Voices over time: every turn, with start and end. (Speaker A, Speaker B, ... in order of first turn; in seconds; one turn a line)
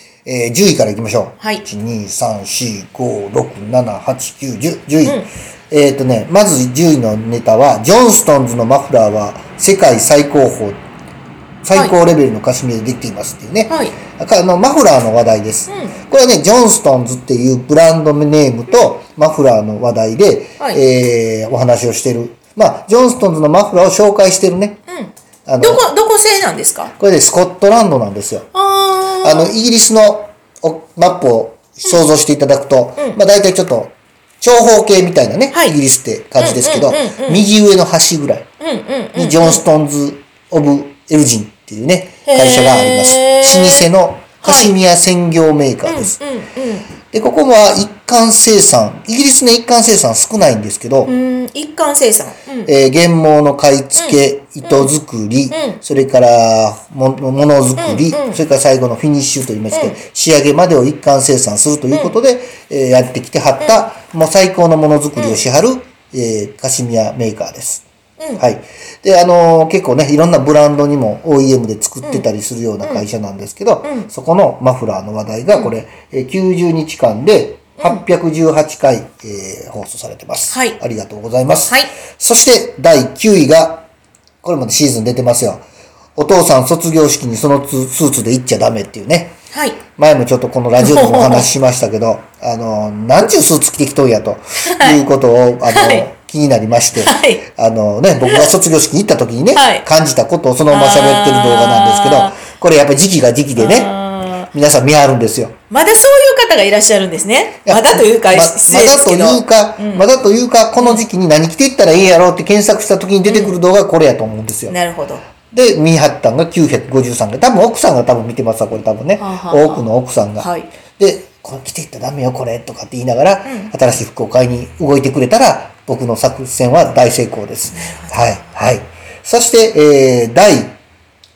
Speaker A: 0.2-10.8
Speaker A: 11.6-24.8
Speaker B: 13.7-14.0
Speaker B: 15.7-16.0
Speaker B: 24.9-26.9
Speaker A: 25.5-25.9
Speaker A: 27.0-28.5
Speaker B: 28.5-29.5
Speaker A: 29.2-38.5
Speaker B: 36.4-37.5
Speaker B: 38.6-39.6
Speaker A: 39.1-46.2
Speaker B: 42.3-43.9
Speaker B: 44.4-44.7
Speaker B: 45.9-46.9
Speaker A: 47.1-51.1
Speaker B: 51.0-52.7
Speaker A: 52.7-67.8
Speaker B: 54.0-54.9
Speaker B: 55.5-55.8
Speaker B: 57.8-58.4
Speaker B: 65.2-65.4
Speaker A: 68.4-83.8
Speaker B: 73.8-74.1
Speaker B: 80.5-80.8
Speaker A: 84.4-85.6
Speaker A: 86.2-89.3
Speaker B: 89.5-89.8
Speaker A: 90.0-104.0
Speaker B: 90.8-91.5
Speaker B: 94.7-95.0
Speaker B: 95.7-96.0
Speaker B: 97.0-97.4
Speaker B: 99.5-99.8
Speaker B: 100.7-102.4
Speaker B: 103.6-104.5
Speaker A: 104.5-105.5
Speaker B: 105.7-110.1
Speaker A: 107.7-114.8
Speaker B: 110.8-111.0
Speaker B: 113.2-113.6
Speaker B: 114.7-115.2
Speaker A: 115.5-130.7
Speaker B: 119.2-119.9
Speaker B: 120.4-120.7
Speaker B: 123.5-123.7
Speaker B: 127.8-128.1